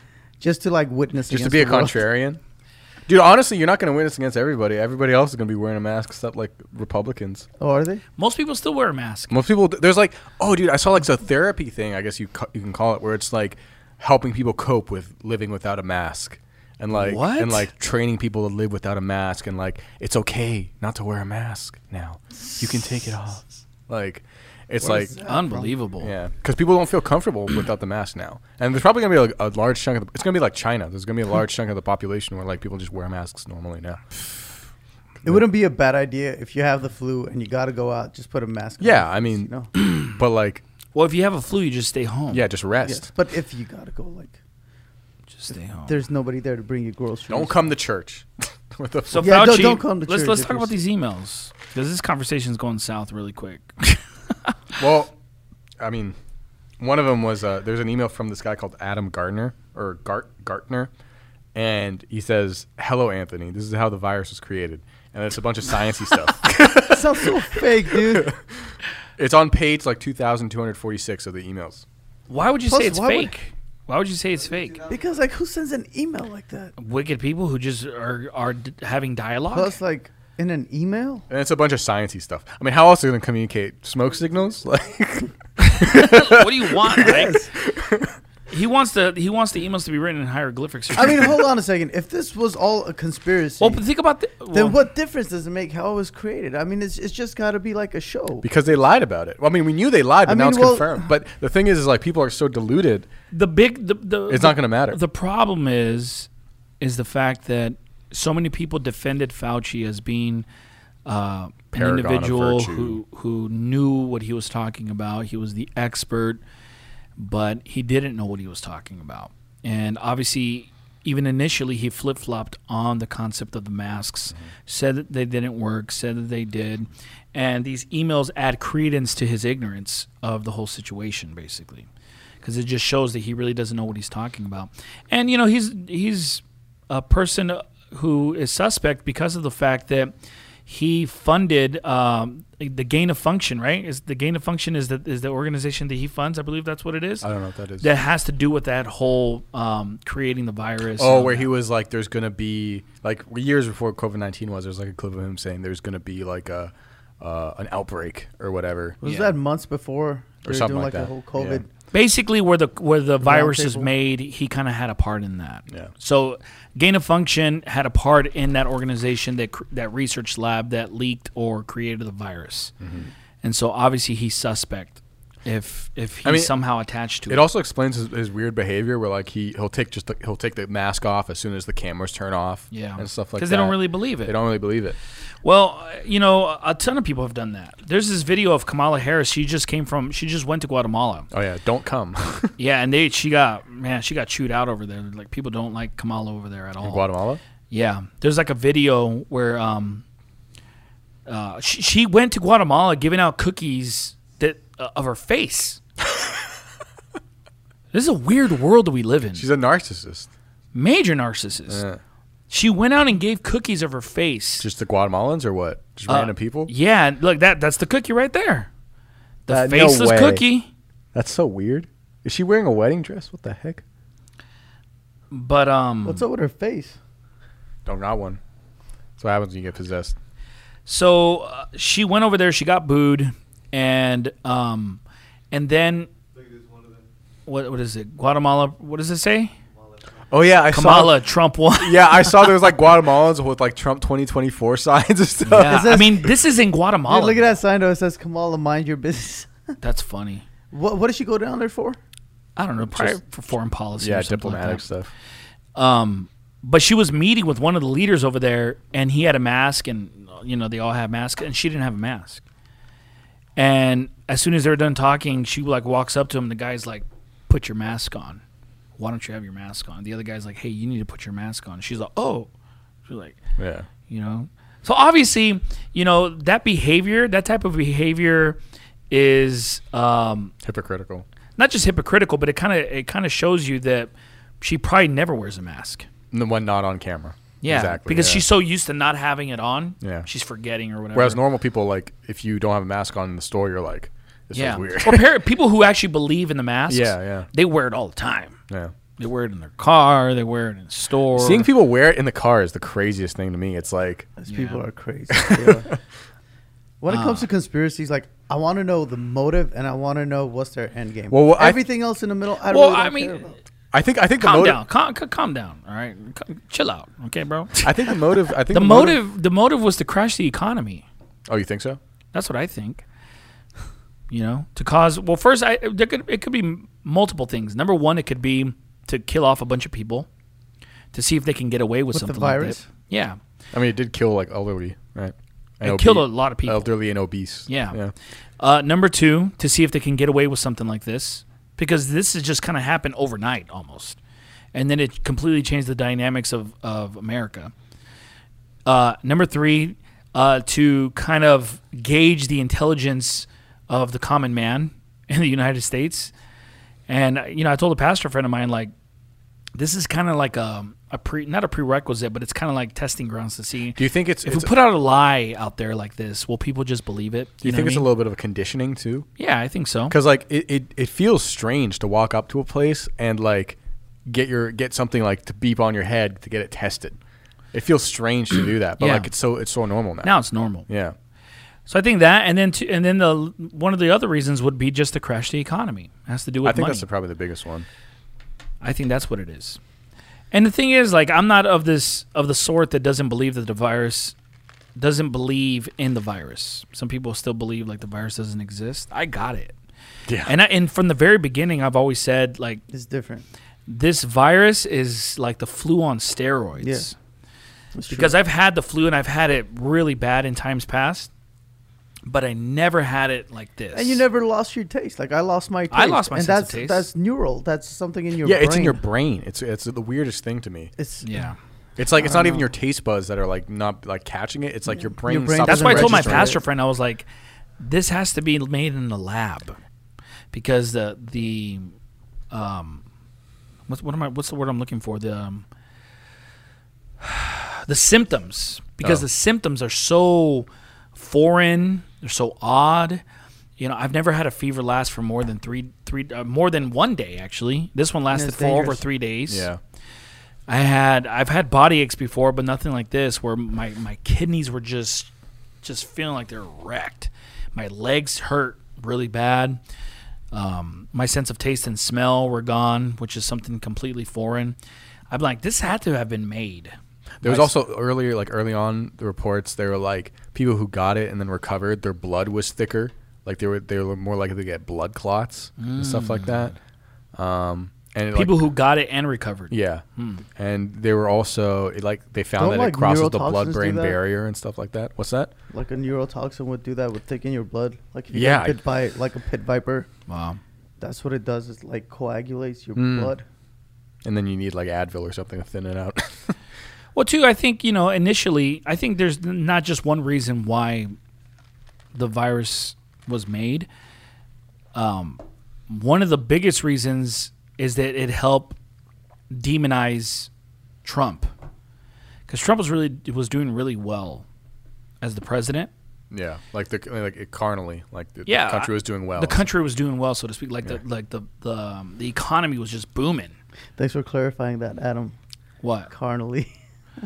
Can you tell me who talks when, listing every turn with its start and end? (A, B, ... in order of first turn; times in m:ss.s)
0:00.4-0:02.0 A
0:01.3-0:02.4 B
0:03.1-0:07.5 B
0:07.6-0:08.0 A
0:08.2-0:09.3 C
0:09.3-0:25.1 B
0:16.9-0:17.7 C
0:24.8-0:25.8 A
0:25.2-0:26.1 C
0:26.0-0:34.2 B
0:35.2-0:39.7 A
0:38.8-0:40.6 B
0:39.8-0:40.1 C
0:40.9-0:42.5 C
0:42.3-0:43.1 B
0:42.8-0:44.4 A
0:45.3-0:46.0 C
0:45.9-0:47.7 A
0:47.3-0:49.4 B
0:49.1-0:54.5 C
0:49.2-0:50.7 A
0:54.8-0:55.1 B
0:55.8-0:56.2 B
0:56.8-1:00.9 B
1:01.6-1:08.4 B
1:06.7-1:08.3 A
1:09.2-1:11.8 B
1:12.3-1:14.8 C
1:12.7-1:13.4 A
1:14.9-1:16.7 A
1:16.8-1:19.8 C
1:19.5-1:21.3 A
1:21.3-1:28.2 B
1:25.6-1:27.5 C
1:27.0-1:27.5 A
1:28.5-1:31.4 C
1:31.0-1:33.8 A
1:33.6-1:34.8 C
1:34.5-1:38.5 A
1:38.4-1:43.1 B
1:40.2-1:41.1 A
1:43.3-1:46.3 C
1:44.3-1:45.0 B
1:46.8-1:50.5 C
1:51.1-1:56.4 C
1:51.8-1:53.0 B
1:57.2-2:11.9 C
2:12.4-2:20.1 C
2:20.7-2:27.3 C
2:27.2-2:27.9 B
2:27.8-2:31.5 C
2:31.0-2:39.2 B
2:39.0-2:41.7 A
2:40.5-2:41.6 B
2:41.9-2:52.7 C
2:43.2-2:43.9 A
2:52.8-2:53.1 B
2:53.4-2:57.4 C
2:56.2-2:56.5 B
2:57.3-3:05.0 B
3:02.7-3:04.4 C
3:05.4-3:11.3 C
3:11.3-3:12.5 B
3:12.6-3:17.0 C
3:16.8-3:17.4 B
3:17.7-3:20.0 C
3:21.3-3:25.8 C
3:27.9-3:29.5 C
3:29.4-3:30.3 B
3:30.7-3:31.8 C
3:31.7-3:32.0 B
3:32.5-3:34.7 C
3:34.6-3:36.7 B
3:36.1-3:38.7 C
3:39.5-3:40.7 C
3:39.5-3:40.4 B
3:39.9-3:40.4 A
3:41.1-3:43.8 B
3:45.3-3:46.2 C
3:46.0-3:47.0 A
3:47.9-3:48.4 B
3:49.2-3:50.2 B
3:50.9-3:55.0 C
3:55.5-3:56.1 C
3:57.5-3:59.5 C
4:00.3-4:06.1 B
4:00.7-4:02.6 C
4:05.5-4:07.5 C
4:05.6-4:06.3 A
4:07.1-4:09.5 A
4:09.8-4:10.4 C
4:10.7-4:12.0 A
4:12.6-4:14.8 C
4:12.9-4:13.2 B
4:14.0-4:15.1 B
4:15.8-4:22.4 C
4:23.6-4:28.4 C
4:29.0-4:32.5 C
4:33.1-4:33.4 C
4:33.6-4:33.9 B
4:34.0-4:38.6 C
4:39.1-4:40.5 C
4:40.6-4:41.2 B
4:41.6-4:46.1 C
4:46.3-4:48.4 B
4:47.6-4:51.4 C
4:50.0-4:50.3 B
4:51.1-4:55.3 B
4:54.5-4:58.6 C
4:56.9-4:57.5 B
4:59.2-5:01.7 C
5:01.4-5:04.3 B
5:04.4-5:05.9 A
5:04.5-5:04.8 C
5:05.3-5:06.0 B
5:07.0-5:13.6 A
5:07.1-5:07.5 C
5:11.3-5:11.8 B
5:12.7-5:13.5 C
5:13.9-5:14.8 B
5:14.4-5:21.0 C
5:17.8-5:19.2 B
5:21.5-5:22.0 B
5:22.3-5:23.0 C
5:24.3-5:30.3 C
5:31.1-5:33.4 C
5:32.1-5:32.9 A
5:33.7-5:38.1 B
5:35.8-5:36.9 C
5:37.7-5:38.0 C
5:38.6-5:44.2 C
5:44.7-5:47.7 C
5:48.9-5:56.3 C
5:57.1-5:58.9 C
5:59.8-6:08.1 C
6:04.0-6:04.7 B
6:07.6-6:09.3 B
6:09.4-6:10.2 C
6:10.1-6:17.2 B
6:17.7-6:20.4 B
6:19.0-6:19.3 C
6:20.2-6:20.9 C
6:20.9-6:21.2 B
6:21.9-6:27.1 C
6:26.6-6:27.9 B
6:28.8-6:29.8 C
6:30.5-6:34.4 C
6:35.0-6:39.8 C
6:40.3-6:40.5 B
6:40.4-6:42.8 C
6:42.9-6:43.4 A
6:43.9-6:47.2 C
6:46.8-6:47.1 A
6:47.9-6:48.3 A
6:48.1-6:51.3 C
6:52.3-6:54.2 C
6:53.9-6:59.0 A
6:55.9-6:57.1 C
6:58.4-7:00.9 B
7:01.0-7:01.3 A
7:01.2-7:01.6 C
7:02.0-7:06.6 B
7:02.2-7:02.7 A
7:05.0-7:06.6 A
7:05.6-7:07.3 C
7:07.8-7:09.8 C
7:10.5-7:11.9 C
7:12.5-7:13.0 C
7:13.9-7:15.6 C
7:17.2-7:23.2 C
7:23.8-7:29.7 C
7:28.3-7:29.0 A
7:29.5-7:29.8 B
7:30.7-7:35.3 C
7:35.8-7:39.8 C
7:40.5-7:44.8 C
7:45.3-7:47.7 C
7:47.4-7:56.8 B
7:55.8-7:56.7 C
7:57.4-7:58.7 B
7:58.3-8:00.4 C
7:59.7-8:00.0 B
8:00.6-8:05.5 B
8:02.6-8:04.2 A
8:05.7-8:10.1 A
8:08.3-8:08.8 B
8:10.3-8:10.6 C
8:11.0-8:13.4 A
8:13.0-8:13.3 B
8:14.2-8:16.6 B
8:17.2-8:21.1 C
8:22.1-8:23.9 C
8:25.0-8:28.8 C
8:29.5-8:30.5 C
8:31.0-8:31.5 C
8:32.5-8:34.4 C
8:35.2-8:35.9 C
8:36.3-8:39.7 B
8:38.5-8:43.6 C
8:44.0-8:45.4 A
8:45.8-8:46.1 C
8:46.1-8:46.7 A